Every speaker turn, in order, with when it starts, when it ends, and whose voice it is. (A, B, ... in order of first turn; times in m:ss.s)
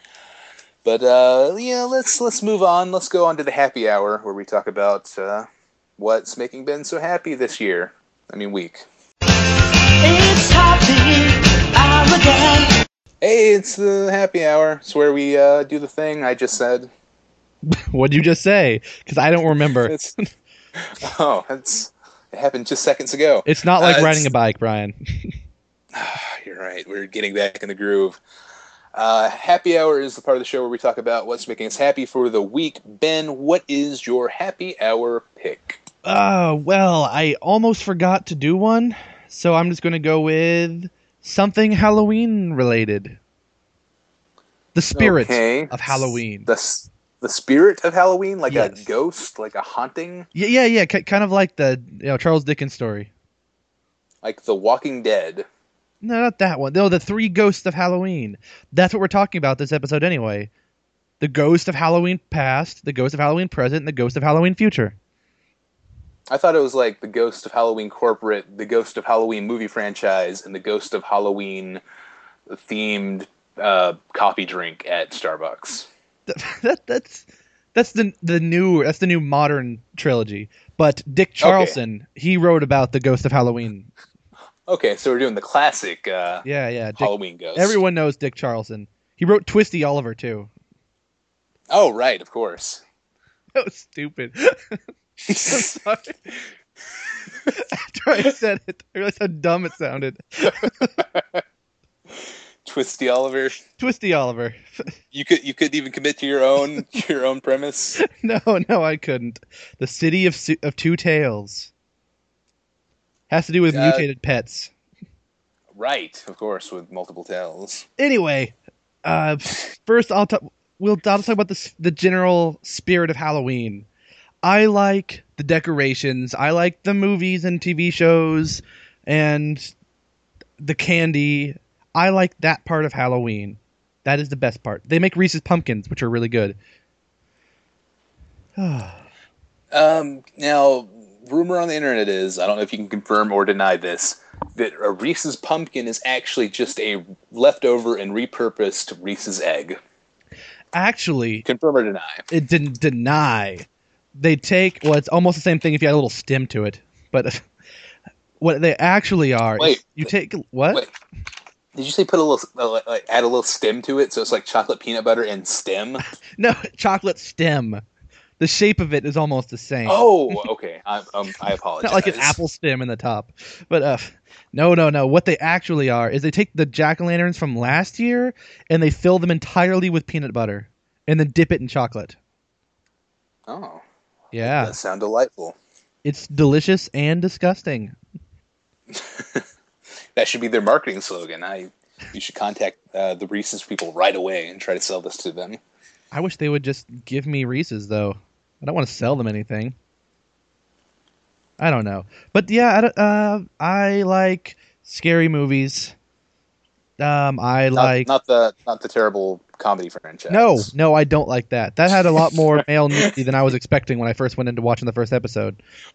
0:00.8-0:08.8 A
0:10.0-0:12.7 B
0:13.2-0:16.9 A
0:17.7-0:20.0 C
0:19.8-0:20.1 A
0:20.8-0:24.3 A
0:23.4-0:25.3 C
0:25.9-0:28.2 A
0:28.9-0:35.8 A
0:36.0-0:43.2 C
0:44.7-0:46.5 C
0:44.9-0:50.3 A
0:48.5-0:48.8 C
0:50.3-0:53.1 C
0:54.2-0:55.4 A
0:56.0-1:00.5 C
1:01.2-1:04.9 C
1:06.3-1:11.8 A
1:12.5-1:15.9 A
1:16.3-1:23.9 C
1:21.4-1:21.8 A
1:24.7-1:26.4 A
1:26.4-1:30.5 C
1:27.0-1:27.8 A
1:31.7-1:32.8 A
1:33.5-1:36.2 C
1:35.3-1:35.7 A
1:37.5-1:41.0 C
1:41.0-1:41.4 A
1:42.1-1:43.6 A
1:43.8-1:44.8 C
1:45.1-1:48.0 A
1:48.0-1:51.7 C
1:53.3-1:54.7 C
1:53.7-1:54.0 A
1:55.7-1:57.8 A
1:58.0-1:58.5 C
1:59.0-2:03.8 C
2:04.4-2:09.7 C
2:10.6-2:16.6 C
2:18.6-2:19.0 C
2:19.7-2:29.8 A
2:30.7-2:31.4 C
2:31.4-2:32.2 A
2:32.3-2:37.4 C
2:38.4-2:40.8 C
2:39.6-2:40.1 A
2:41.7-2:46.0 A
2:46.4-2:47.8 C
2:48.4-2:50.0 C
2:49.8-2:52.4 A
2:51.8-3:02.2 C
3:03.5-3:03.8 A
3:04.3-3:04.7 C
3:04.4-3:05.6 A
3:06.0-3:08.0 C
3:08.9-3:09.4 A
3:10.1-3:15.6 A
3:16.1-3:19.7 C
3:21.6-3:25.9 C
3:27.0-3:28.1 C
3:27.8-3:30.7 A
3:30.3-3:35.6 C
3:32.1-3:33.1 A